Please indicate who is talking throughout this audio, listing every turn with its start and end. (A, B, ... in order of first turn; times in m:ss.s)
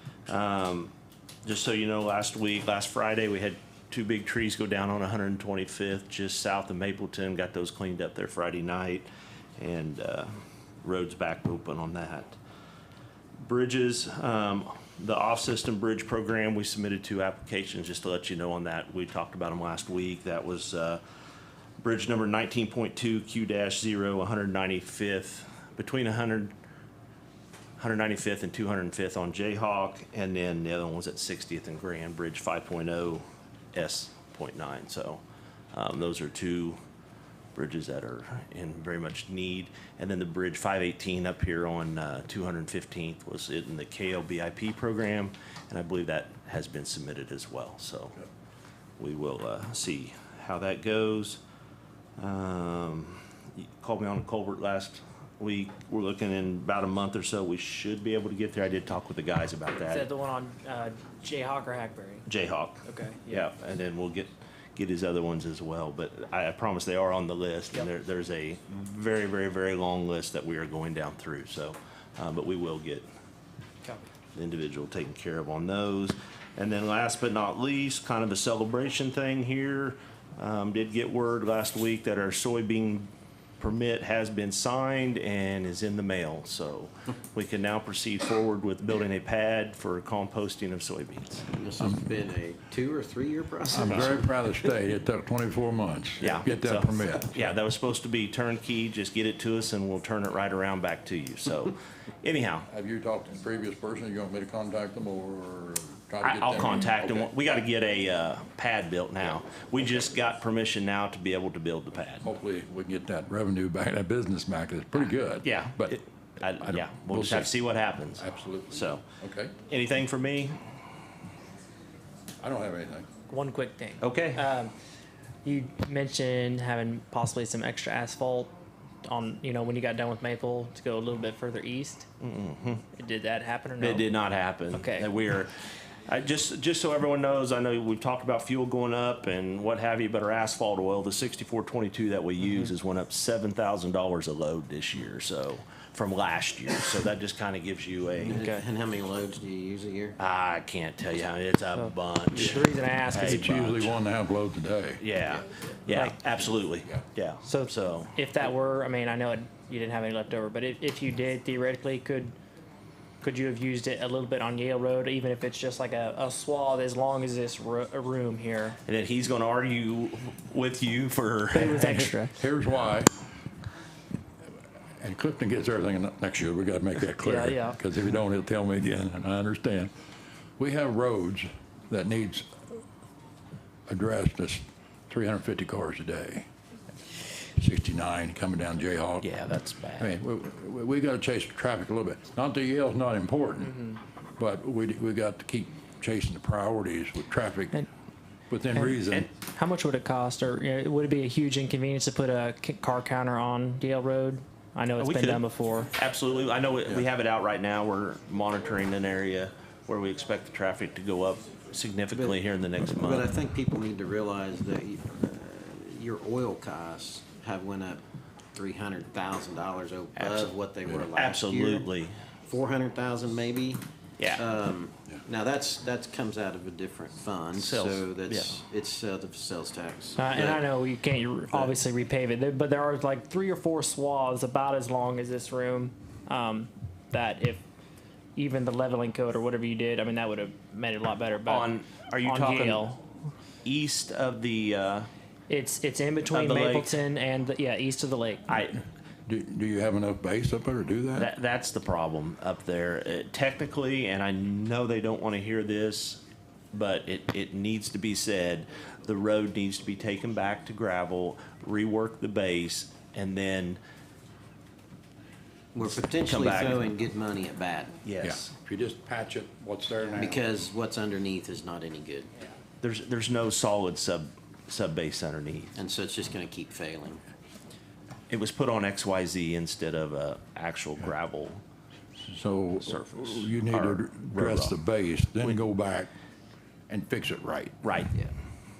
0:00.3-0:00.9 A
0:01.4-0:12.4 A
0:13.4-0:21.0 A
0:21.8-0:26.5 A
0:27.8-0:35.2 A
0:35.7-0:36.8 A
0:37.6-0:48.2 A
0:49.0-0:51.4 A
0:52.2-1:00.1 A
0:59.8-1:02.3 B
1:02.3-1:13.1 A
1:02.8-1:03.5 B
1:14.3-1:31.5 A
1:31.5-1:34.3 C
1:33.7-1:37.5 D
1:36.2-1:42.7 A
1:42.7-1:47.3 D
1:46.2-1:52.3 A
1:52.2-1:56.0 D
1:55.4-1:59.0 A
1:56.6-1:57.5 D
1:58.2-1:59.6 D
1:59.7-2:00.6 A
2:02.4-2:03.1 D
2:03.3-2:04.7 B
2:04.0-2:04.4 A
2:05.4-2:12.1 B
2:12.2-2:12.8 A
2:12.9-2:14.1 B
2:13.8-2:15.5 A
2:14.7-2:15.1 B
2:16.1-2:28.4 A
2:28.2-2:30.2 C
2:28.3-2:28.6 B
2:30.2-2:33.9 A
2:31.7-2:33.9 B
2:32.3-2:35.0 D
2:35.0-2:38.2 A
2:35.9-2:36.2 B
2:37.4-2:42.4 B
2:43.2-2:48.8 B
2:48.8-2:51.9 A
2:51.5-2:52.4 B
2:51.8-2:53.2 D
2:55.0-2:59.9 D
2:57.2-2:57.8 B
3:00.6-3:02.8 D
3:03.9-3:06.5 D
3:07.6-3:09.4 D
3:09.2-3:10.2 A
3:10.0-3:17.8 D
3:13.7-3:14.0 B
3:18.5-3:19.3 D
3:18.7-3:25.9 B
3:25.0-3:33.3 A
3:32.1-3:32.4 C
3:32.9-3:38.0 C
3:38.6-3:41.9 C
3:40.2-3:40.5 A
3:41.1-3:42.1 A
3:42.5-3:50.6 C
3:44.2-3:44.4 A
3:47.5-3:48.6 A
3:50.2-3:57.6 B
3:58.4-4:03.1 B
4:01.5-4:02.9 A
4:03.6-4:05.1 A
4:05.5-4:08.5 B
4:06.3-4:07.0 A
4:08.5-4:08.8 A
4:09.2-4:11.3 D
4:11.2-4:23.8 A
4:25.7-4:28.0 C
4:25.9-4:26.8 A
4:28.0-4:28.5 A
4:28.2-4:30.5 D
4:30.2-4:32.3 C
4:32.8-4:35.7 A
4:35.7-4:37.2 C
4:38.3-4:41.6 A
4:42.2-4:46.1 D
4:42.8-4:44.8 A
4:46.9-4:47.8 D
4:47.8-4:48.2 A